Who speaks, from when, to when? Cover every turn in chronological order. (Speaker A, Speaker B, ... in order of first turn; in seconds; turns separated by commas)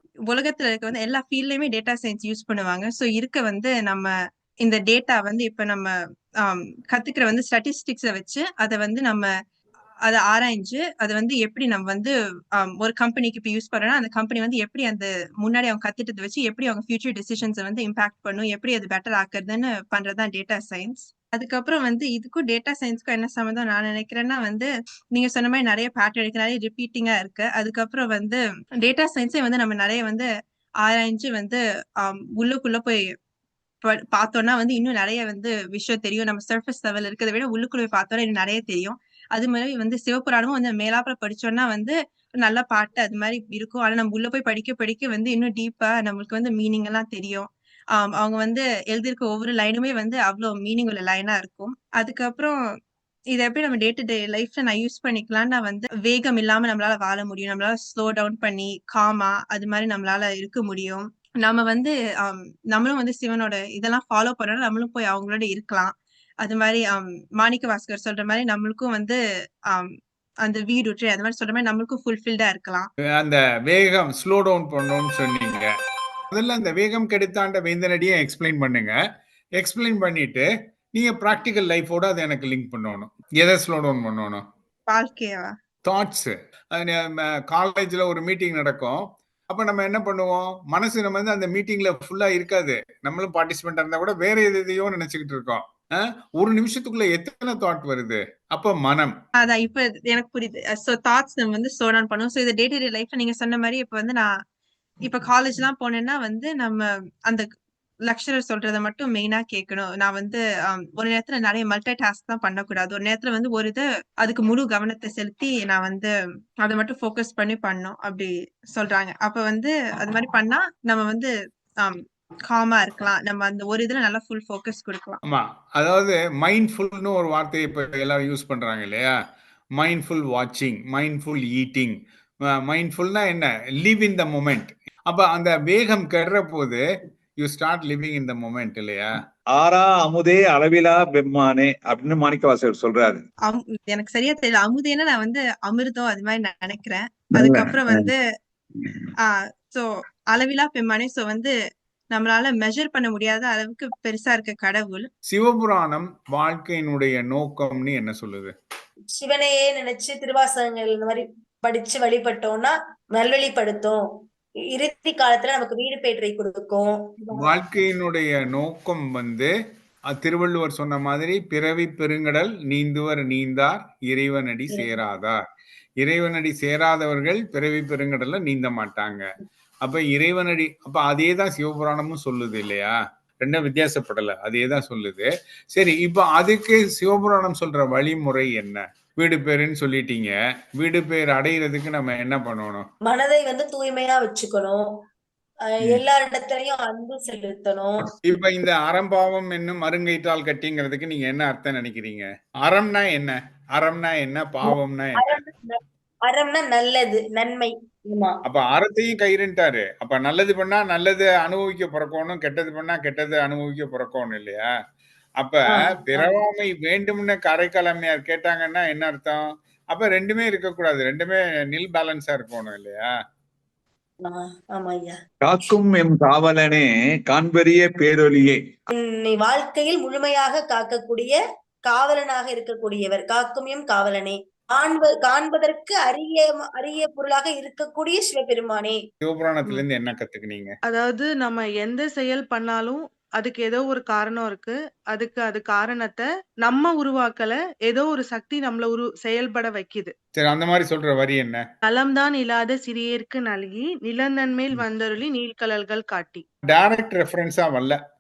Speaker A: 0.3-4.1, Speaker A: 4.6-5.9, Speaker A: 6.4-9.3, Speaker A: 10.1-30.3, Speaker A: 30.8-33.1, Speaker A: 33.8-52.5, Speaker A: 53.3-69.2, Speaker A: 70.4-72.9, Speaker B: 73.2-75.7, Speaker B: 76.3-79.0, Speaker B: 79.6-84.4, Speaker A: 84.9-85.5, Speaker B: 85.9-99.2, Speaker A: 99.4-104.3, Speaker A: 105.0-107.5, Speaker A: 108.1-121.3, Speaker A: 122.5-125.2, Speaker B: 125.2-129.1, Speaker B: 129.8-132.0, Speaker B: 132.6-136.8, Speaker B: 137.4-139.1, Speaker C: 139.5-143.2, Speaker A: 143.5-148.2, Speaker C: 147.3-148.1, Speaker A: 149.7-151.5, Speaker A: 152.1-155.1, Speaker B: 155.3-158.6, Speaker D: 159.1-164.1, Speaker D: 164.7-167.6, Speaker B: 167.3-169.5, Speaker B: 170.1-175.4, Speaker B: 176.0-179.2, Speaker B: 179.8-192.9, Speaker D: 193.0-194.9, Speaker D: 195.6-198.1, Speaker B: 198.2-205.4, Speaker D: 204.6-208.4, Speaker B: 208.5-214.7, Speaker B: 215.4-223.1, Speaker D: 215.7-216.3, Speaker D: 224.2-225.2, Speaker C: 225.4-228.6, Speaker D: 228.9-239.0, Speaker B: 239.2-240.8, Speaker E: 240.9-250.1, Speaker B: 250.4-251.6, Speaker E: 251.9-256.4, Speaker B: 256.7-258.0